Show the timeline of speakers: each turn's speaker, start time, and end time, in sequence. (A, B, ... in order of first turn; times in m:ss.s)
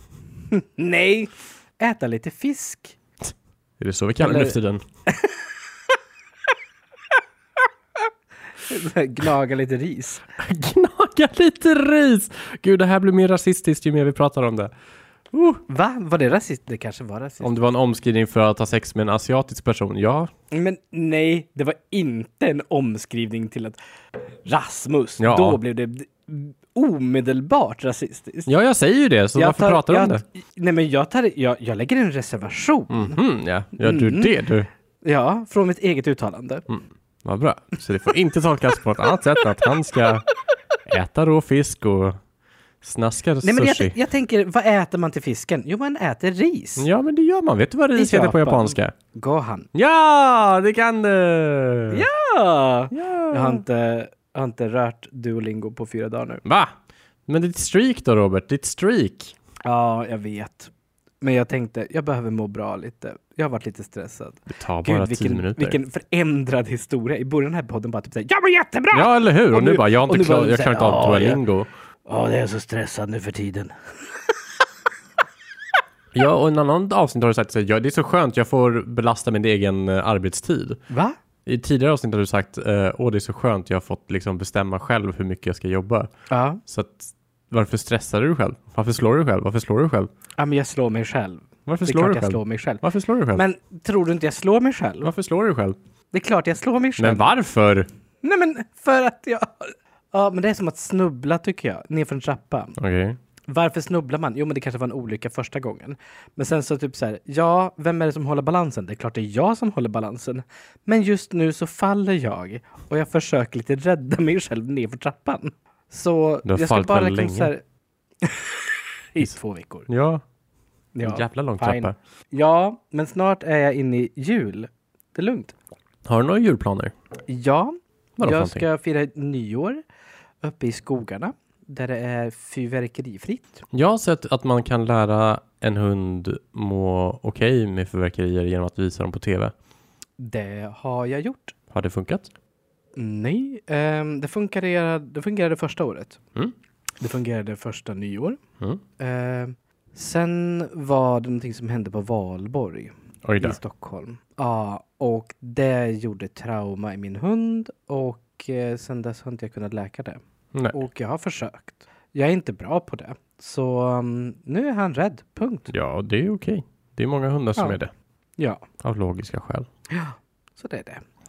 0:00.5-0:03.0 A
0:03.8-0:04.8 B
0:04.2-0:04.6 A
0:05.1-0:05.5 A
0:08.6-0:10.2 A
0:10.4-0:14.7 B
0:15.3-0:15.6 B
0:15.7-0:17.5 A
0:17.4-0:20.3 B
0:20.5-0:23.8 A
0:24.4-0:28.5 A
0:25.2-0:25.6 B
0:28.5-0:30.2 B
0:29.4-0:33.2 A
0:32.9-0:34.7 B
0:33.8-0:34.4 A
0:35.0-0:36.6 A
0:36.7-0:40.3 B
0:40.9-0:42.2 B
0:42.8-0:44.0 B
0:43.4-0:46.9 A
0:46.8-0:48.9 B
0:47.9-0:49.7 A
0:49.7-0:52.0 B
0:51.9-0:56.4 A
0:52.9-0:53.6 B
0:56.4-0:56.7 B
0:57.3-0:59.4 B
0:59.6-1:11.4 A
1:04.5-1:05.8 B
1:08.9-1:11.7 B
1:12.0-1:14.4 A
1:16.1-1:20.8 B
1:20.9-1:21.2 A
1:21.5-1:26.1 B
1:26.3-1:26.6 A
1:26.7-1:30.1 B
1:30.4-1:35.1 A
1:31.6-1:33.4 B
1:35.0-1:35.8 B
1:36.1-1:37.3 A
1:37.0-1:37.9 B
1:38.2-1:42.8 A
1:42.8-1:43.2 B
1:43.5-1:57.6 A
1:56.4-1:57.5 B
1:58.2-1:59.9 A
1:59.9-2:00.2 B
2:00.9-2:05.5 A
2:01.0-2:02.0 B
2:06.0-2:06.9 B
2:07.3-2:09.8 A
2:08.2-2:08.6 B
2:10.4-2:13.6 A
2:13.7-2:19.5 B
2:20.2-2:21.5 A
2:21.7-2:22.3 B
2:23.0-2:26.2 A
2:27.0-2:28.4 A
2:29.0-2:40.2 A
2:33.2-2:33.6 B
2:40.7-2:45.7 A
2:45.7-2:47.9 B
2:48.4-2:48.6 A
2:48.8-2:49.7 B
2:49.9-2:51.0 A